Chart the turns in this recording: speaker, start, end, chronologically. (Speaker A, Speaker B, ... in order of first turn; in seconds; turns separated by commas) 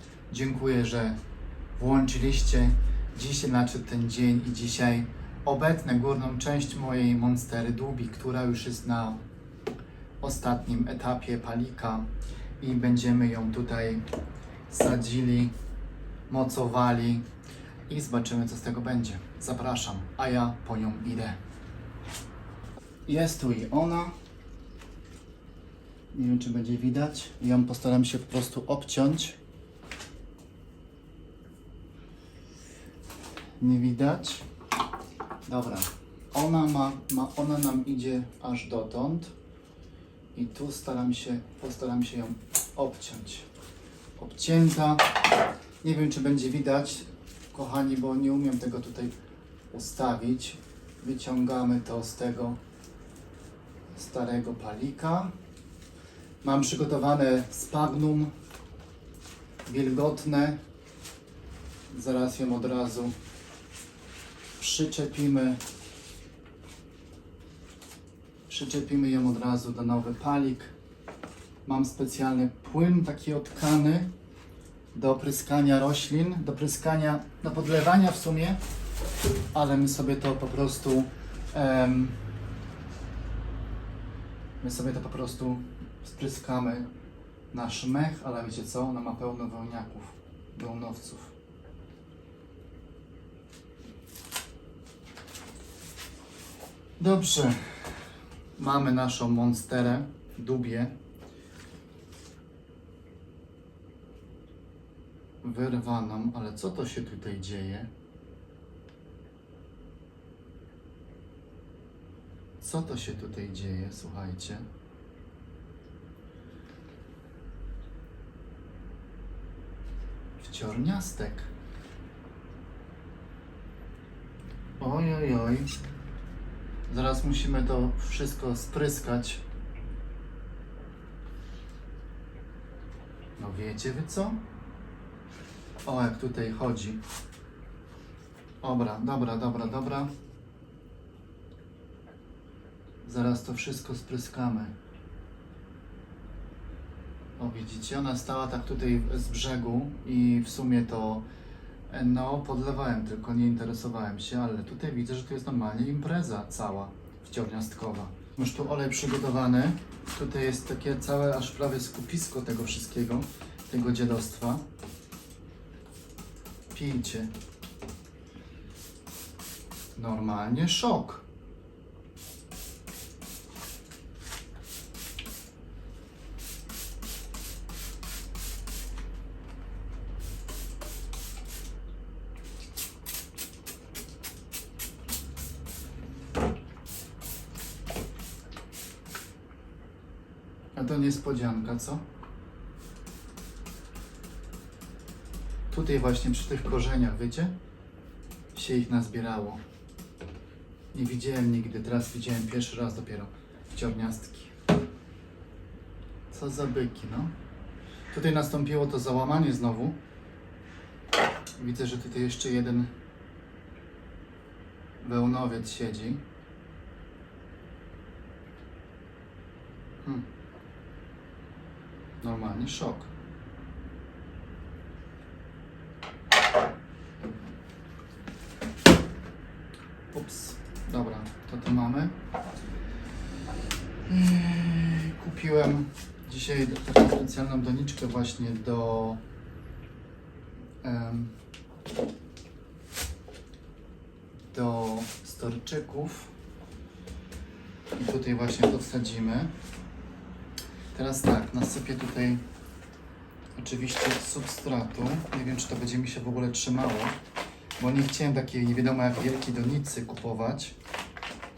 Speaker A: 0.3-1.2, Speaker A: 1.8-9.2, Speaker A: 10.2-14.0, Speaker A: 14.7-15.5, Speaker A: 16.3-17.3, Speaker A: 17.9-21.4, Speaker A: 23.1-24.1, Speaker A: 26.1-29.4, Speaker A: 33.6-34.5, Speaker A: 35.5-39.3, Speaker A: 40.4-43.5, Speaker A: 44.2-45.1, Speaker A: 45.8-49.1, Speaker A: 49.7-52.6, Speaker A: 54.0-55.3, Speaker A: 56.4-58.3, Speaker A: 59.6-60.6, Speaker A: 61.9-63.1, Speaker A: 64.6-65.6, Speaker A: 68.5-70.7, Speaker A: 71.7-74.1, Speaker A: 74.9-78.6, Speaker A: 79.5-82.2, Speaker A: 84.6-86.9, Speaker A: 87.5-91.3, Speaker A: 97.0-97.8, Speaker A: 98.6-100.9, Speaker A: 105.4-107.9, Speaker A: 112.6-114.7, Speaker A: 120.4-121.5, Speaker A: 124.8-125.7, Speaker A: 126.9-129.4, Speaker A: 133.4-134.4, Speaker A: 135.8-137.0, Speaker A: 138.6-140.1, Speaker A: 143.0-144.8, Speaker A: 147.4-151.2, Speaker A: 151.9-164.7, Speaker A: 166.7-167.3, Speaker A: 170.0-171.2, Speaker A: 190.8-192.0, Speaker A: 195.7-197.5, Speaker A: 198.5-199.6, Speaker A: 200.9-204.5, Speaker A: 206.3-207.3, Speaker A: 208.1-210.0, Speaker A: 211.6-212.9, Speaker A: 215.0-216.2, Speaker A: 222.2-223.1, Speaker A: 230.1-232.2, Speaker A: 234.1-239.2, Speaker A: 240.8-241.3, Speaker A: 244.5-246.3, Speaker A: 248.0-249.5, Speaker A: 250.9-252.4, Speaker A: 253.6-257.2, Speaker A: 257.8-260.8